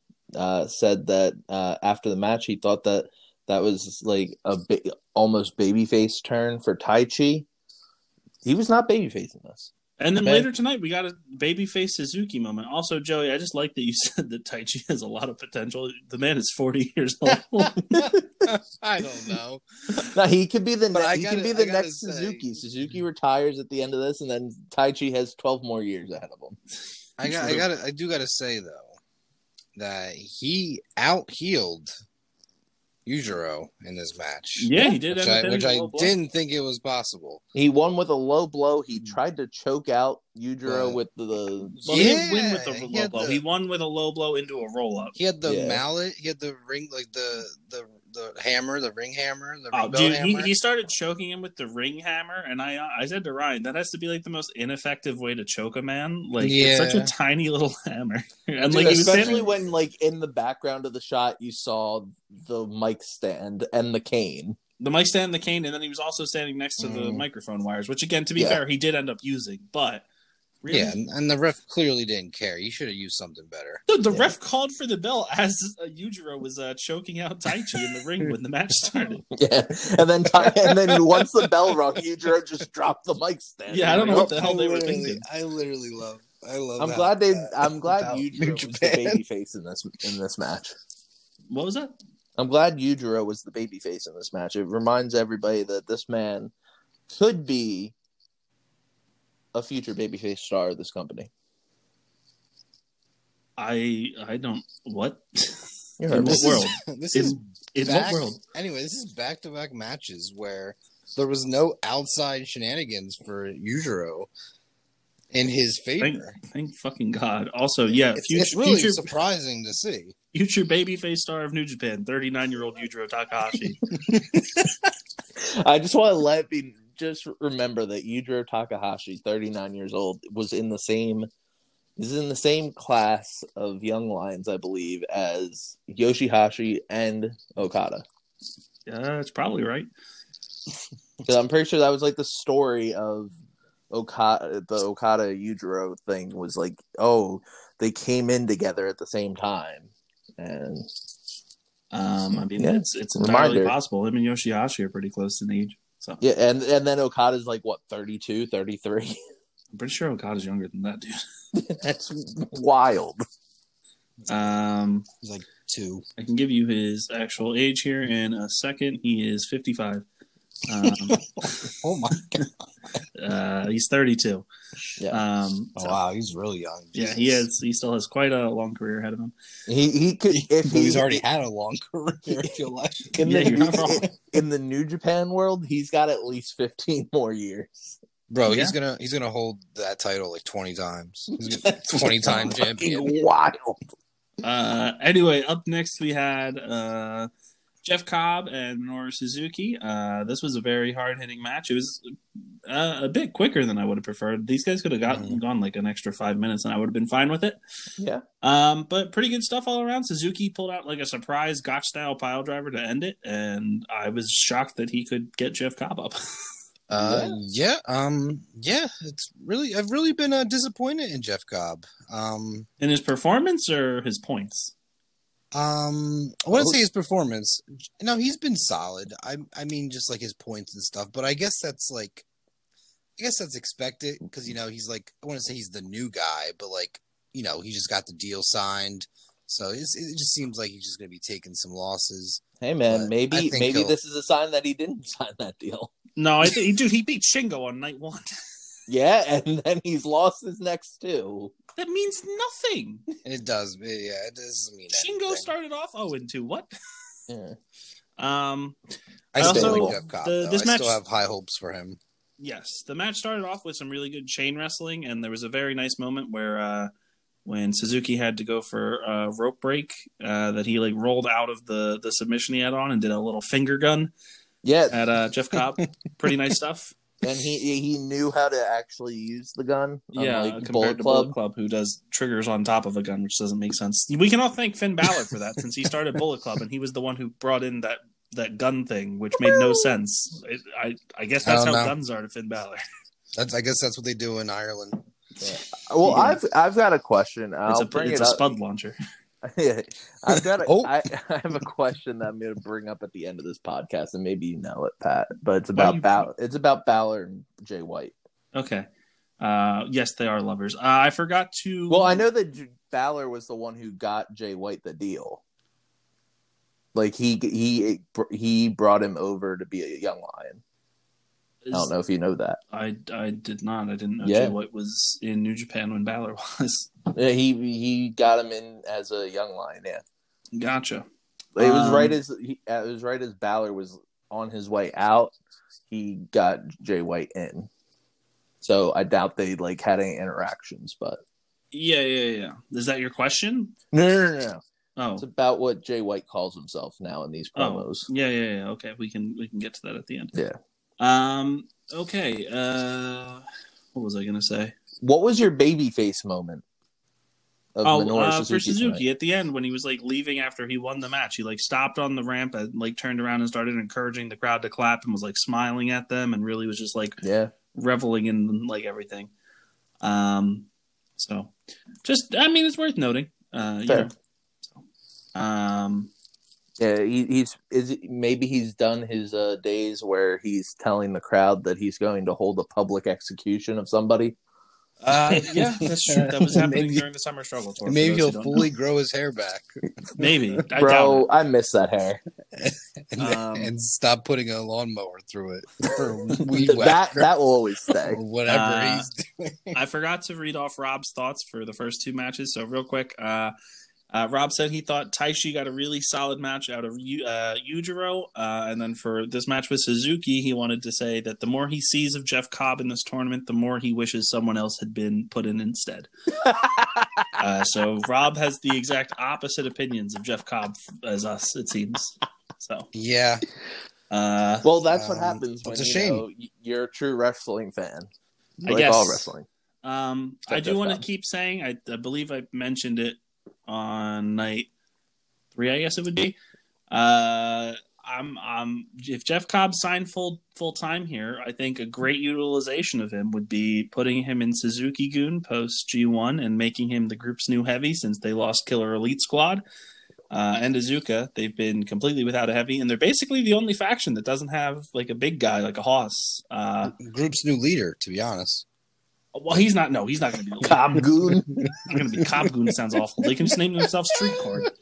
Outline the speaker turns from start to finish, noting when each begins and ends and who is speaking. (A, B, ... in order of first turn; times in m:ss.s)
0:00.3-0:07.5 A
0:08.4-0:09.7 A
0:10.0-0:18.1 B
0:17.9-0:18.5 A
0:18.4-0:19.6 C
0:20.0-0:26.6 A
0:20.9-0:22.9 C
0:27.2-0:28.9 C
0:27.2-0:27.6 B
0:29.8-0:31.9 C
0:33.0-0:37.4 C
0:34.6-0:36.1 B
0:37.5-0:42.0 A
0:40.6-0:41.0 C
0:41.8-0:43.4 C
0:41.8-0:45.1 B
0:45.2-0:50.5 C
0:45.4-0:45.8 A
0:49.7-0:59.4 B
0:56.4-0:57.1 C
0:58.7-1:04.6 A
0:58.8-0:59.7 C
1:04.8-1:10.0 B
1:06.8-1:07.2 C
1:10.6-1:11.0 B
1:10.7-1:13.8 C
1:13.9-1:19.2 B
1:19.3-1:24.6 A
1:20.4-1:21.2 C
1:23.7-1:25.2 B
1:24.0-1:29.2 C
1:26.8-1:30.7 A
1:31.5-1:31.9 B
1:32.4-1:36.5 A
1:37.1-1:37.9 A
1:39.5-1:41.3 A
1:43.6-1:48.4 B
1:46.0-1:46.7 A
1:46.2-1:54.3 C
1:55.3-1:56.3 C
1:56.0-1:59.1 B
1:58.1-2:00.1 C
2:00.3-2:03.8 B
2:05.4-2:11.3 A
2:12.0-2:18.0 A
2:18.8-2:19.9 B
2:21.2-2:23.3 A
2:23.9-2:30.9 A
2:31.9-2:36.2 B
2:32.4-2:33.8 A
2:36.2-2:39.2 A
2:39.7-2:41.2 B
2:41.5-2:43.2 A
2:44.2-2:44.5 C
2:44.3-2:45.1 B
2:45.2-2:46.0 C
2:46.2-2:50.0 B
2:50.6-2:51.7 B
2:51.4-2:52.5 C
2:53.1-2:54.5 B
2:55.1-2:56.0 B
2:55.8-2:57.4 C
2:56.9-2:59.3 B
2:59.7-3:01.2 A
3:00.6-3:04.1 C
3:03.2-3:07.9 A
3:03.2-3:04.1 B
3:08.3-3:13.1 C
3:08.5-3:08.7 B
3:11.5-3:13.8 A
3:14.4-3:17.3 B
3:17.8-3:22.1 B
3:22.7-3:27.6 B
3:25.1-3:25.4 C
3:28.0-3:28.2 A
3:28.4-3:36.2 B
3:36.9-3:42.7 C
3:36.9-3:37.4 A
3:42.8-3:44.7 B
3:45.5-3:52.2 C
3:53.2-4:04.0 C
4:02.6-4:05.9 A
4:06.2-4:08.3 B
4:08.9-4:11.5 A
4:11.8-4:13.0 B
4:13.2-4:15.5 C
4:14.9-4:16.7 B
4:17.3-4:17.6 A
4:18.2-4:18.8 B
4:19.3-4:22.0 C
4:19.4-4:21.0 B
4:19.4-4:20.0 A
4:22.4-4:26.9 B
4:27.4-4:34.1 B
4:34.6-4:34.9 A
4:34.9-4:37.0 B
4:37.2-4:41.3 A
4:40.1-4:52.8 B
4:51.4-4:51.9 C
4:53.3-4:55.0 C
4:55.4-4:58.4 A
4:56.0-4:56.4 B
4:57.7-4:59.0 B
4:59.4-5:08.1 A
5:00.6-5:00.9 C
5:05.8-5:06.3 B
5:08.5-5:08.9 B
5:09.4-5:12.2 B
5:11.9-5:15.4 A
5:16.9-5:20.6 A
5:21.6-5:21.9 B
5:21.7-5:22.6 A
5:22.7-5:26.9 B
5:24.2-5:24.6 A
5:27.1-5:30.0 A
5:30.6-5:31.0 B
5:31.6-5:35.3 A
5:31.6-5:32.2 B
5:35.9-5:37.7 A
5:38.6-5:41.2 A
5:41.7-5:43.7 B
5:43.9-5:44.6 A
5:45.0-5:45.2 B
5:45.2-5:48.1 A
5:47.6-5:50.3 B
5:51.0-5:53.4 B
5:53.9-5:54.7 B
5:55.0-5:56.6 A
5:57.8-5:59.0 A
5:57.8-6:07.2 B
6:07.2-6:07.5 A
6:07.7-6:09.3 B
6:10.0-6:11.5 B
6:12.0-6:14.1 B
6:15.3-6:16.1 B
6:16.8-6:24.4 A
6:25.0-6:28.6 B
6:25.3-6:27.0 C
6:27.8-6:30.3 C
6:30.2-6:31.3 B
6:30.8-6:32.2 A
6:32.5-6:37.3 C
6:33.2-6:33.7 B
6:36.6-6:38.2 A
6:38.0-6:39.8 C
6:38.5-6:39.1 B
6:39.7-6:43.5 B
6:44.1-6:56.1 B
6:56.4-6:57.3 A
6:57.4-7:02.9 B
7:02.9-7:03.4 C
7:04.1-7:04.6 B
7:04.6-7:08.1 A
7:04.9-7:06.2 C
7:08.6-7:09.4 A
7:08.6-7:09.3 B
7:09.8-7:14.7 B
7:10.5-7:11.0 A
7:15.5-7:16.4 B
7:16.9-7:29.6 B
7:30.3-7:37.0 B
7:36.8-7:38.6 C
7:39.3-7:41.1 B
7:40.6-7:41.7 A
7:41.8-7:44.7 B
7:44.4-7:44.7 C